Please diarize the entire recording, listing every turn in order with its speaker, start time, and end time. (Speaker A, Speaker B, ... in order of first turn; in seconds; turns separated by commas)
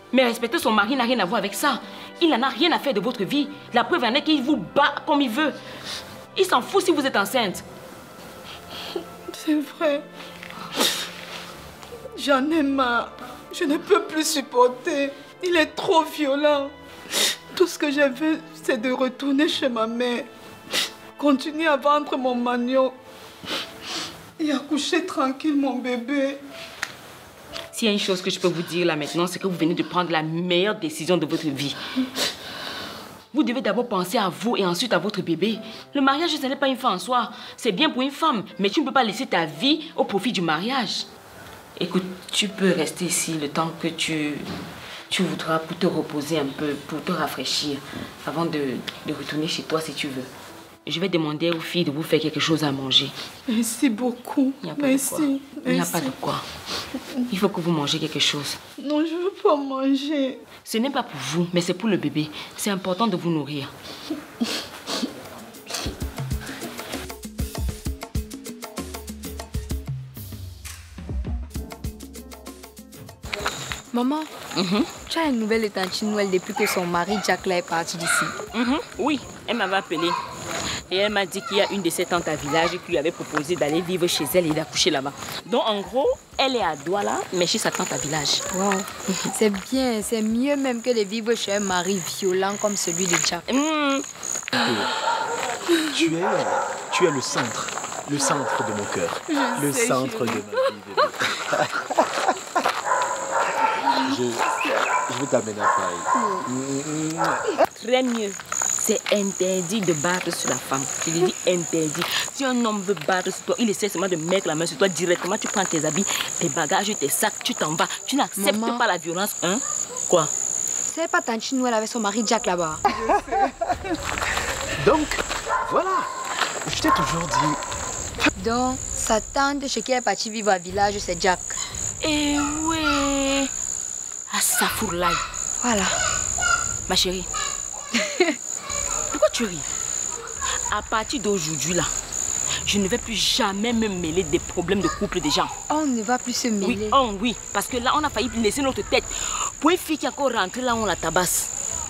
Speaker A: 0.1-5.5, Speaker A: 6.3-7.6, Speaker B: 9.3-10.0, Speaker B: 12.2-16.7, Speaker B: 17.5-20.3, Speaker B: 21.2-22.9, Speaker B: 24.4-26.4, Speaker A: 27.7-31.8, Speaker A: 33.3-41.1, Speaker A: 41.8-44.5, Speaker A: 45.1-50.3, Speaker A: 50.9-53.1, Speaker B: 53.5-56.1, Speaker A: 54.6-56.4, Speaker A: 57.3-58.6, Speaker B: 58.8-60.4, Speaker A: 60.6-63.7, Speaker C: 73.9-74.3, Speaker A: 74.5-74.9, Speaker C: 75.1-78.3, Speaker A: 78.5-80.2, Speaker A: 80.9-88.4, Speaker C: 88.5-93.4, Speaker A: 93.5-94.0, Speaker D: 94.5-94.9, Speaker D: 95.9-101.1, Speaker B: 99.3-100.3, Speaker D: 105.1-105.4, Speaker A: 107.7-120.3, Speaker C: 118.4-118.8, Speaker C: 120.9-122.8, Speaker D: 123.0-123.3, Speaker D: 124.8-126.1, Speaker D: 126.6-127.6, Speaker C: 128.4-131.6, Speaker A: 132.0-133.5, Speaker A: 134.3-135.2, Speaker C: 135.6-136.0, Speaker A: 136.9-137.3, Speaker C: 138.0-138.3, Speaker A: 139.1-139.7, Speaker A: 140.7-141.9, Speaker A: 142.6-145.5, Speaker C: 145.7-147.0, Speaker A: 146.6-151.5